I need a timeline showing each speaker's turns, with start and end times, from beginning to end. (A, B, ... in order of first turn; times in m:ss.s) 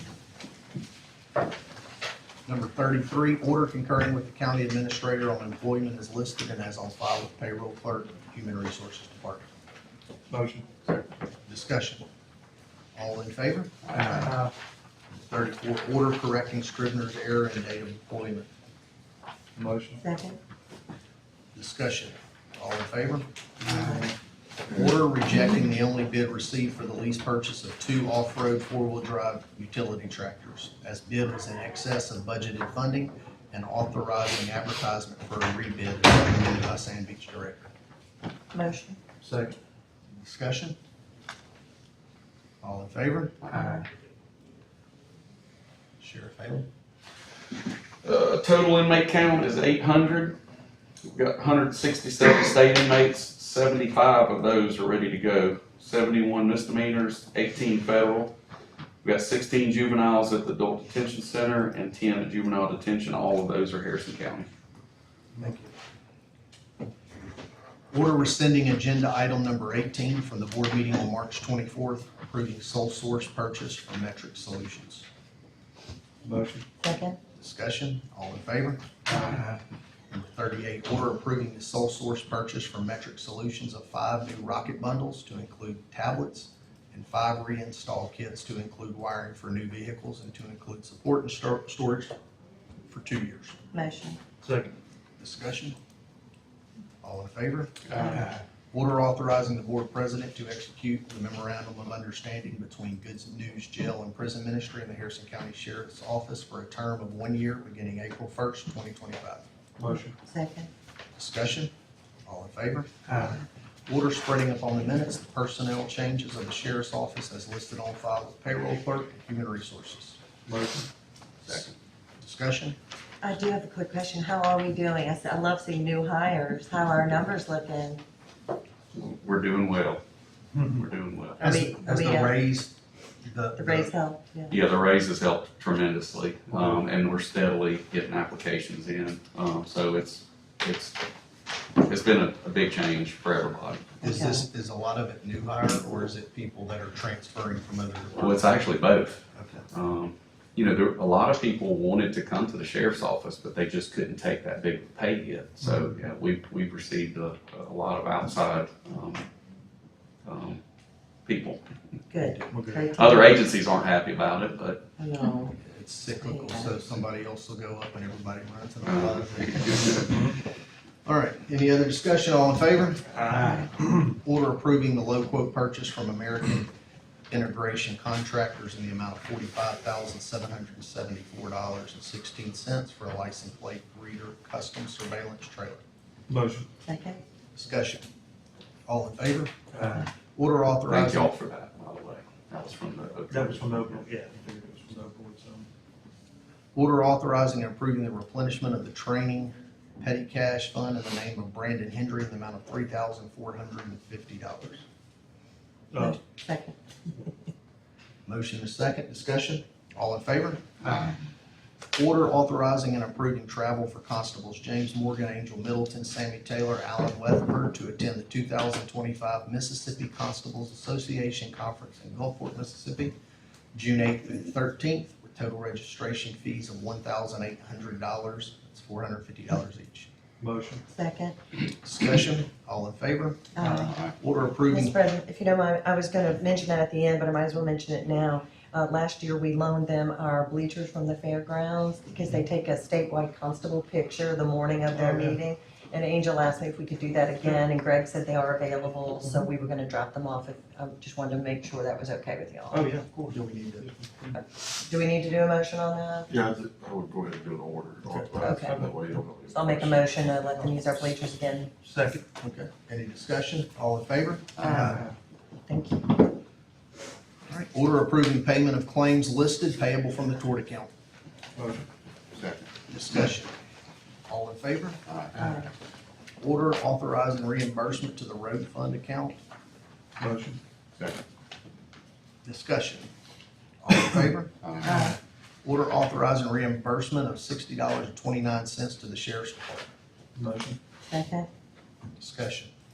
0:02.4-0:09.4 A
0:10.3-0:10.8 B
0:11.5-0:12.0 A
0:12.9-0:13.9 A
0:14.1-0:14.5 B
0:15.3-0:18.5 A
0:19.6-0:20.0 B
0:20.0-0:20.4 C
0:21.5-0:23.3 A
0:23.6-0:24.0 C
0:23.8-0:24.1 B
0:24.7-0:37.7 A
0:38.5-0:39.0 C
0:39.2-0:39.5 B
0:40.2-0:40.8 A
0:42.6-0:43.5 A
0:43.5-0:43.8 C
0:46.0-0:46.7 A
0:48.0-0:50.4 D
0:51.0-0:58.3 D
0:59.0-1:04.5 D
1:05.4-1:05.7 A
1:07.9-1:15.1 A
1:16.2-1:16.6 B
1:16.8-1:17.2 C
1:17.3-1:18.9 A
1:20.1-1:32.1 A
1:32.9-1:33.6 A
1:33.7-1:34.2 C
1:34.4-1:34.7 B
1:35.2-1:35.8 A
1:37.0-1:38.0 A
1:38.0-1:38.2 C
1:38.7-1:49.4 A
1:49.8-1:50.1 B
1:49.9-1:50.7 C
1:51.2-1:51.7 A
1:52.2-1:53.1 A
1:53.9-2:00.2 A
2:00.4-2:00.9 B
2:02.2-2:02.8 A
2:03.2-2:08.0 C
2:08.9-2:10.0 D
2:10.5-2:10.8 B
2:10.7-2:11.4 D
2:11.4-2:12.4 C
2:11.4-2:13.9 A
2:13.6-2:14.6 C
2:14.5-2:21.0 D
2:21.8-2:23.9 D
2:24.0-2:24.4 C
2:24.0-2:28.5 A
2:28.2-2:39.2 D
2:29.3-2:29.6 A
2:40.2-2:40.6 D
2:41.2-2:41.6 D
2:42.1-2:43.3 C
2:42.3-2:42.9 B
2:42.9-2:44.8 D
2:45.0-2:46.9 C
2:45.6-2:50.2 A
2:48.8-2:49.8 D
2:50.0-2:50.4 B
2:51.0-2:53.2 A
2:53.3-2:53.7 C
2:54.1-2:56.7 A
2:57.3-3:05.8 A
3:06.3-3:06.7 B
3:06.8-3:07.2 C
3:07.5-3:08.0 A
3:08.8-3:09.6 A
3:09.7-3:10.1 B
3:10.3-3:11.3 A
3:10.9-3:13.9 D
3:13.3-3:15.7 B
3:16.7-3:24.8 A
3:25.9-3:26.2 B
3:25.9-3:27.3 C
3:28.2-3:30.8 A
3:30.8-3:31.1 B
3:31.9-3:43.2 A
3:43.7-3:50.1 A
3:50.4-3:50.8 B
3:50.9-3:51.4 C
3:51.8-3:53.6 A
3:53.6-3:54.1 C
3:54.1-3:54.9 A
3:54.7-4:12.9 C
4:04.9-4:05.4 B
4:12.7-4:14.4 B
4:13.3-4:13.9 A
4:14.3-4:16.3 C
4:16.3-4:20.4 E
4:18.1-4:18.9 B
4:18.4-4:18.9 C
4:19.5-4:21.7 C
4:21.8-4:22.2 B
4:22.4-4:24.6 A
4:24.6-4:25.0 C
4:24.7-4:25.1 B
4:25.7-4:26.4 C
4:27.5-4:30.9 A
4:31.6-4:31.8 B
4:32.3-4:32.6 E
4:32.9-4:33.5 A
4:34.3-4:35.0 A
4:35.1-4:35.5 E
4:35.3-4:35.7 C
4:36.4-4:39.4 A
4:40.2-4:40.6 B
4:42.4-4:43.1 A
4:43.8-4:44.5 A
4:44.6-4:44.9 E
4:44.8-4:45.2 C
4:45.6-4:49.9 A
4:50.4-4:50.8 B
4:51.1-4:51.5 C
4:52.2-4:52.7 A